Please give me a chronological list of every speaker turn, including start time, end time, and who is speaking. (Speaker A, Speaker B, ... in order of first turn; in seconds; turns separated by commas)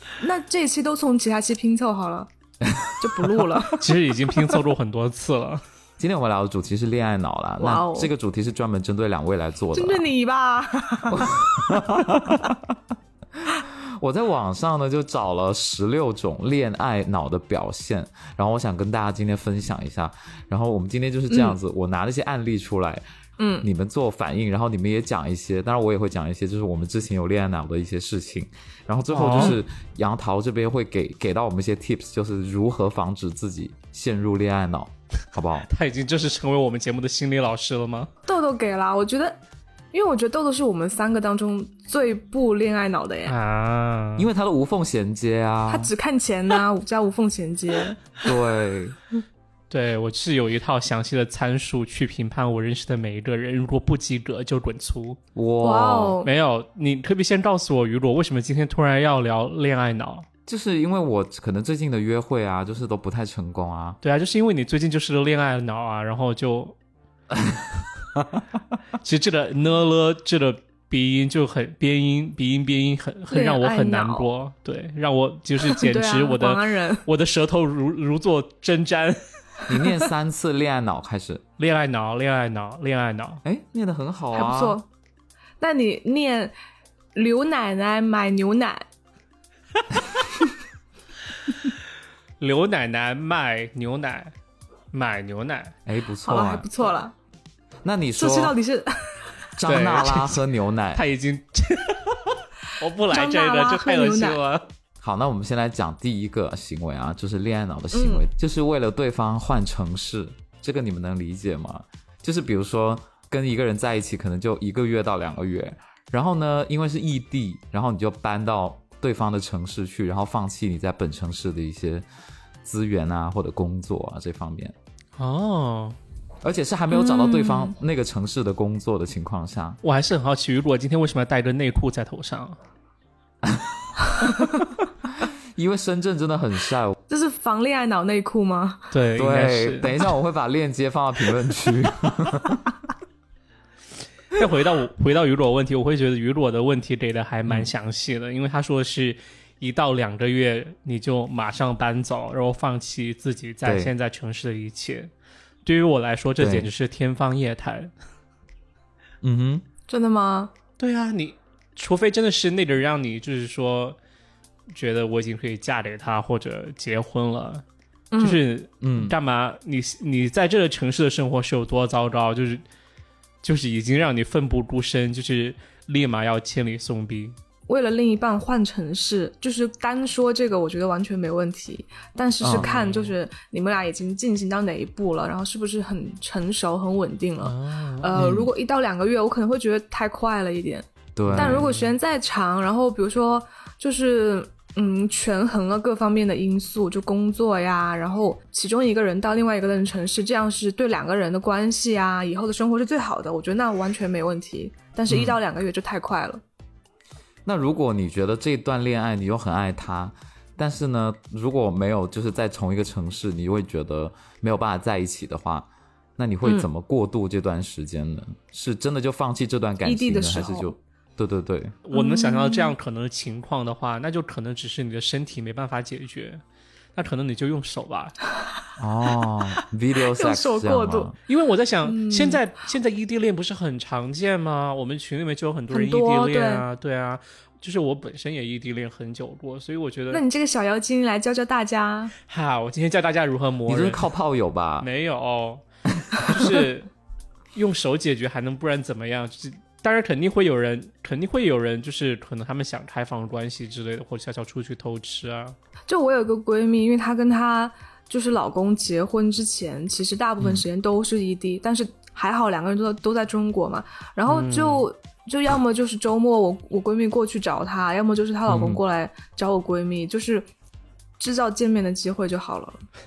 Speaker A: 0.2-2.3, Speaker B: 2.6-2.9, Speaker A: 3.0-3.8, Speaker C: 3.8-5.6, Speaker B: 6.0-10.1, Speaker A: 7.6-8.1, Speaker A: 9.7-11.4, Speaker B: 11.1-12.8, Speaker B: 13.4-23.0, Speaker A: 21.3-21.6, Speaker A: 23.4-23.7, Speaker B: 23.6-35.7, Speaker C: 29.1-29.6, Speaker C: 35.6-38.1, Speaker A: 38.3-39.4, Speaker A: 39.9-43.4, Speaker C: 43.3-44.3, Speaker B: 44.2-45.9, Speaker A: 45.7-48.0, Speaker B: 48.2-49.0, Speaker C: 49.7-55.2, Speaker B: 55.4-56.2, Speaker A: 55.6-56.3, Speaker C: 56.2-60.3, Speaker B: 60.5-64.0, Speaker C: 64.0-66.8, Speaker C: 69.0-79.2, Speaker A: 73.3-74.3, Speaker A: 75.7-77.0, Speaker B: 79.7-81.4, Speaker C: 81.6-83.4, Speaker B: 83.4-84.8, Speaker A: 84.3-84.9, Speaker A: 85.6-86.5, Speaker A: 87.2-88.8, Speaker C: 92.4-94.3, Speaker C: 94.9-95.8, Speaker B: 95.9-96.7, Speaker A: 96.3-97.1, Speaker B: 97.8-98.6, Speaker A: 98.2-99.3, Speaker B: 99.6-101.0, Speaker C: 99.7-100.4, Speaker C: 101.0-104.7, Speaker A: 103.1-104.4, Speaker B: 105.0-122.1, Speaker A: 107.9-108.2, Speaker B: 122.6-124.8, Speaker C: 125.2-126.0, Speaker B: 126.4-129.8, Speaker A: 126.9-127.7, Speaker C: 129.8-132.6, Speaker B: 133.4-134.5, Speaker A: 134.2-134.6, Speaker B: 135.2-136.9, Speaker A: 137.1-138.9, Speaker C: 138.9-140.0, Speaker B: 139.2-142.7, Speaker C: 144.3-155.1, Speaker B: 153.6-153.9, Speaker C: 155.7-157.9, Speaker B: 156.4-156.7, Speaker B: 159.2-159.7, Speaker A: 159.9-160.5, Speaker C: 160.8-164.0, Speaker C: 164.7-167.6, Speaker A: 168.1-168.4, Speaker C: 168.2-172.6, Speaker B: 168.8-169.1, Speaker C: 173.4-177.4, Speaker A: 177.7-206.4, Speaker B: 182.4-182.7, Speaker C: 182.5-183.2, Speaker C: 187.4-188.1, Speaker B: 188.2-188.5, Speaker B: 191.2-191.6, Speaker C: 191.3-191.9, Speaker B: 205.1-205.4, Speaker B: 207.5-221.8, Speaker A: 219.8-220.7, Speaker C: 221.8-226.4, Speaker A: 221.9-222.8, Speaker C: 226.9-228.1, Speaker B: 228.8-231.2, Speaker A: 230.1-231.1, Speaker C: 231.3-240.2, Speaker A: 231.8-232.4, Speaker A: 235.7-236.7, Speaker A: 240.1-242.1, Speaker C: 242.3-244.1, Speaker B: 243.7-244.9, Speaker C: 244.8-246.9, Speaker B: 246.1-246.5, Speaker C: 247.5-255.6, Speaker A: 255.9-270.5, Speaker C: 264.3-264.9, Speaker B: 268.5-268.8, Speaker A: 271.2-272.8